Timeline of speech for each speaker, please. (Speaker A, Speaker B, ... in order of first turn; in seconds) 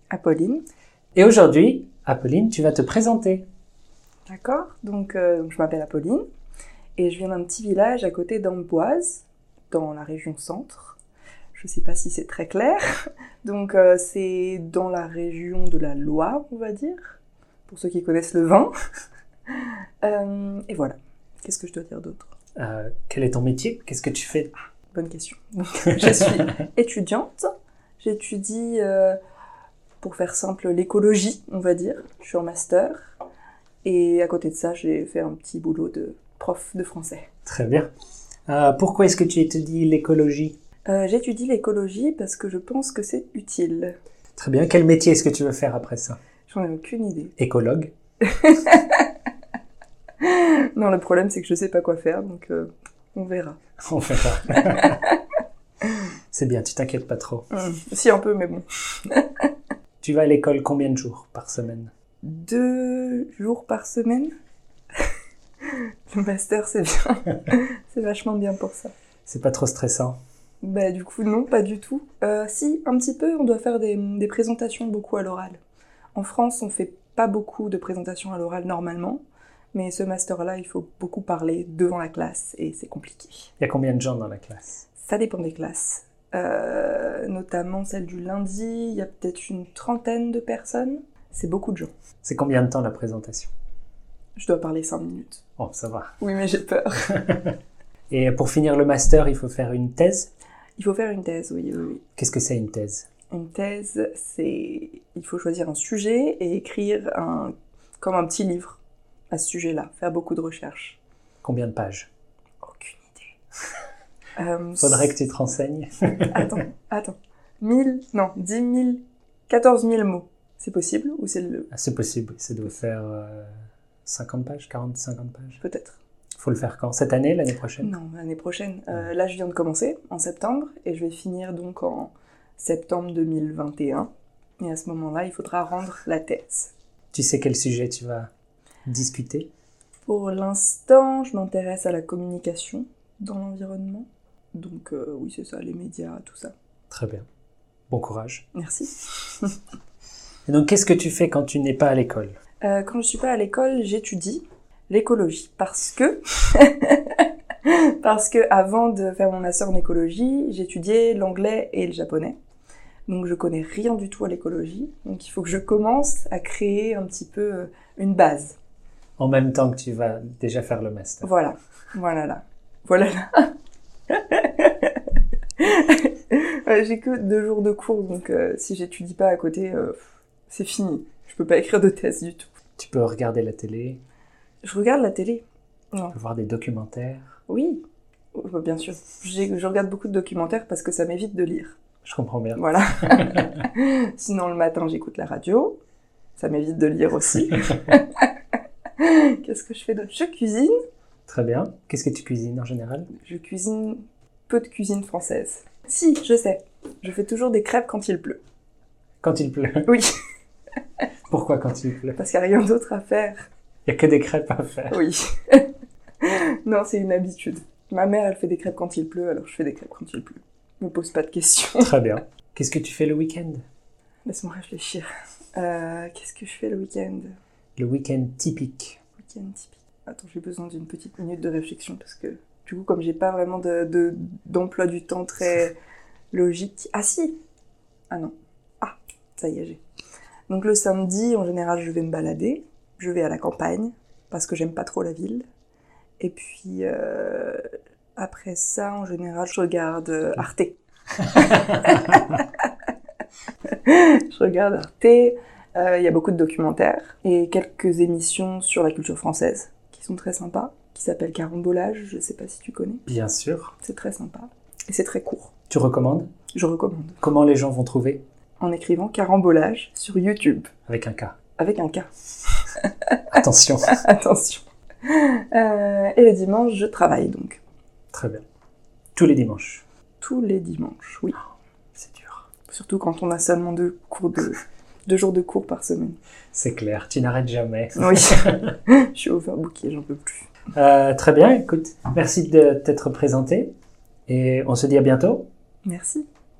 Speaker A: 0.1-0.6, 4.3-6.2, 7.0-11.0, 11.5-18.7, 20.0-22.3, 24.9-27.5, 28.0-29.2, 30.0-33.1, 33.8-37.3, 40.9-44.0, 46.5-47.3, 48.2-49.1, 50.2-53.6, 54.5-55.2, 57.5-59.5, 62.2-64.3, 65.6-68.9, 70.6-75.6, 76.1-79.2, 79.7-83.5, 85.0-91.9, 94.3-95.4, 96.2-97.1, 100.8-102.0, 103.3-108.8, 109.3-111.0, 112.6-113.3, 114.3-115.1, 116.3-121.7, 125.6-126.0, 127.8-134.1, 134.6-136.7, 140.1-146.5, 148.5-149.6, 152.6-162.3, 163.1-168.6, 171.2-173.5, 174.1-175.0, 175.6-182.6, 184.6-186.2, 187.5-187.8, 188.3-191.8, 192.6-195.8, 196.4-198.3, 199.0-200.7, 203.2-208.4, 209.9-210.1, 212.2-213.4, 214.9-215.7, 216.2-221.9, 224.2-227.3, 229.2-235.8, 236.3-237.4, 238.1-239.8, 240.5-245.4, 246.2-247.6, 248.2-250.7, 251.3-252.7, 253.7-263.0, 263.8-265.5, 266.5-267.2, 268.6-270.7, 271.6-272.1, 272.6-277.6, 280.2-281.4, 282.7-286.2, 288.0-290.5, 295.8-296.2
Speaker B: 1.1-3.4, 22.6-24.5, 37.5-37.9, 38.5-40.5, 44.4-46.2, 47.4-47.9, 53.8-55.0, 56.3-57.5, 60.0-61.9, 69.2-70.2, 83.6-84.8, 92.2-93.5, 95.6-96.2, 97.2-97.5, 98.1-100.3, 102.2-103.1, 111.4-112.1, 114.8-116.6, 121.7-123.5, 124.0-125.6, 126.4-127.9, 137.1-138.3, 138.8-139.5, 146.9-147.2, 147.9-148.4, 150.5-152.3, 169.2-171.3, 182.8-184.0, 186.1-187.4, 192.0-193.6, 201.3-203.1, 209.2-210.0, 211.3-212.2, 213.8-215.0, 221.8-223.6, 227.8-229.0, 263.1-263.7, 265.7-266.3, 267.2-268.2, 270.9-271.4, 273.3-274.0, 278.1-278.4, 279.1-279.8, 281.9-282.5, 286.5-288.7, 290.7-293.7, 294.3-295.5